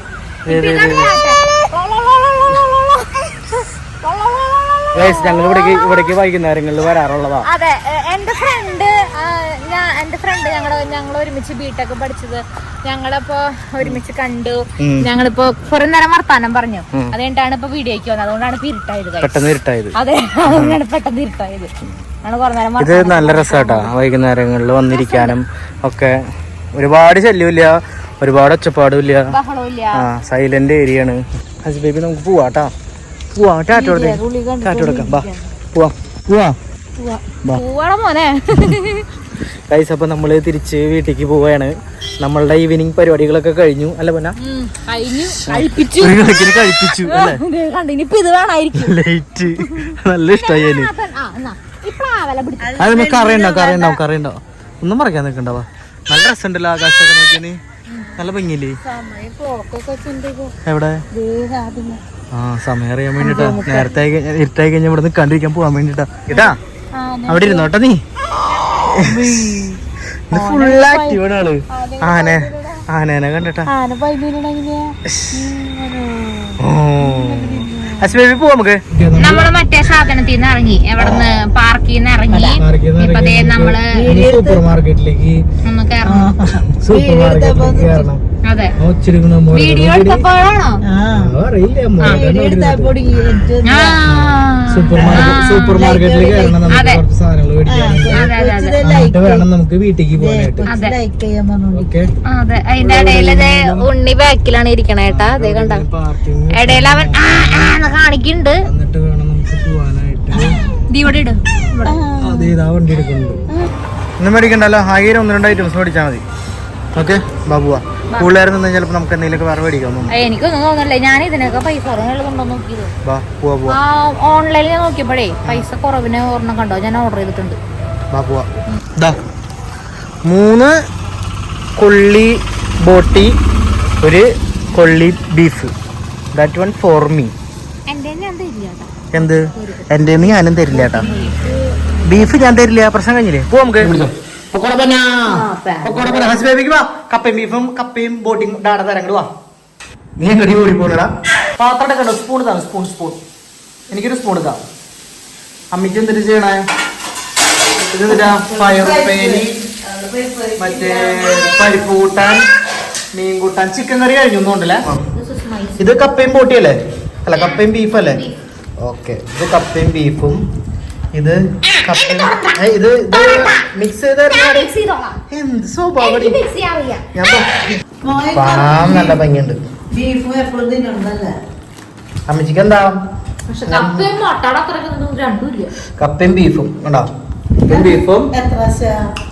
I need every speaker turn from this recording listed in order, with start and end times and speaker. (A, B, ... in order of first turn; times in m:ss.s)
0:00.5-0:06.2 A
0:00.5-0:01.1 B
0:04.9-0:07.5 B
0:07.4-0:21.7 A
0:14.8-0:15.1 B
0:19.2-0:20.8 B
0:22.2-0:23.9 A
0:22.8-0:26.2 B
0:24.9-0:25.4 A
0:26.8-0:29.4 B
0:29.3-0:30.1 A
0:29.9-0:32.7 B
0:33.3-0:36.6 B
0:33.8-0:35.3 C
0:33.8-0:35.2 A
0:37.0-0:39.1 A
0:39.7-0:44.4 B
0:44.4-0:49.0 A
0:45.5-0:47.4 B
0:48.7-0:50.9 B
0:49.6-0:54.0 A
0:52.6-0:53.8 C
0:52.8-0:57.6 B
0:57.9-0:58.2 A
0:58.1-0:58.8 B
0:58.8-1:00.6 C
1:00.6-1:01.0 B
1:01.1-1:02.0 C
1:02.3-1:06.6 B
1:03.2-1:03.9 C
1:07.0-1:07.7 C
1:07.3-1:08.0 B
1:08.4-1:11.2 C
1:08.7-1:09.3 B
1:10.3-1:13.7 B
1:11.8-1:12.8 C
1:13.7-1:18.1 C
1:15.1-1:15.4 B
1:16.6-1:19.5 B
1:19.2-1:24.1 A
1:21.0-1:21.4 B
1:22.3-1:22.6 C
1:22.6-1:25.4 B
1:23.9-1:24.6 C
1:25.6-1:26.4 A
1:26.0-1:28.1 C
1:26.7-1:28.2 B
1:28.4-1:28.8 A
1:28.8-1:30.2 B
1:29.5-1:30.8 A
1:30.8-1:31.3 C
1:31.1-1:33.0 B
1:32.0-1:34.0 C
1:33.6-1:35.9 A
1:34.0-1:38.3 B
1:35.0-1:36.6 C
1:36.7-1:37.0 A
1:37.7-1:39.5 C
1:38.1-1:38.8 A
1:38.8-1:40.7 B
1:40.2-1:41.9 C
1:40.7-1:41.0 A
1:41.7-1:42.1 B
1:42.2-1:45.8 A
1:42.8-1:43.9 B
1:45.1-1:47.8 B
1:46.5-1:48.6 A
1:48.6-1:50.6 B
1:50.3-1:52.0 A
1:51.8-1:52.6 C
1:52.2-1:53.4 B
1:54.2-1:56.2 B
1:56.9-2:00.2 B
2:00.1-2:02.9 A
2:03.0-2:03.8 B
2:03.7-2:07.6 A
2:08.1-2:09.2 B
2:10.2-2:10.7 B
2:11.8-2:13.3 B
2:14.0-2:15.7 B
2:16.3-2:17.3 B
2:17.9-2:21.5 A
2:19.1-2:21.1 B
2:20.7-2:21.6 C
2:22.0-2:24.0 B
2:24.5-2:29.3 B
2:25.2-2:26.4 C
2:30.2-2:33.2 B
2:33.9-2:34.6 B
2:35.7-2:36.6 B
2:37.9-2:39.6 B
2:38.1-2:41.7 C
2:40.6-2:42.4 B
2:43.1-2:44.9 B
2:44.9-2:46.0 A
2:45.8-2:48.2 B
2:47.3-2:48.4 A
2:48.8-2:50.4 B
2:51.1-2:54.7 B
2:51.7-2:52.6 A
2:53.1-2:53.6 A
2:54.3-2:55.2 A
2:55.3-2:56.4 B
2:56.0-2:57.1 A
2:57.1-2:57.5 B
2:58.0-2:59.2 C
2:58.3-2:59.6 B
2:58.6-2:59.0 A
2:59.9-3:01.4 C
3:02.3-3:03.0 B
3:03.5-3:05.7 A
3:03.7-3:04.1 B
3:06.0-3:08.3 B
3:07.7-3:09.1 C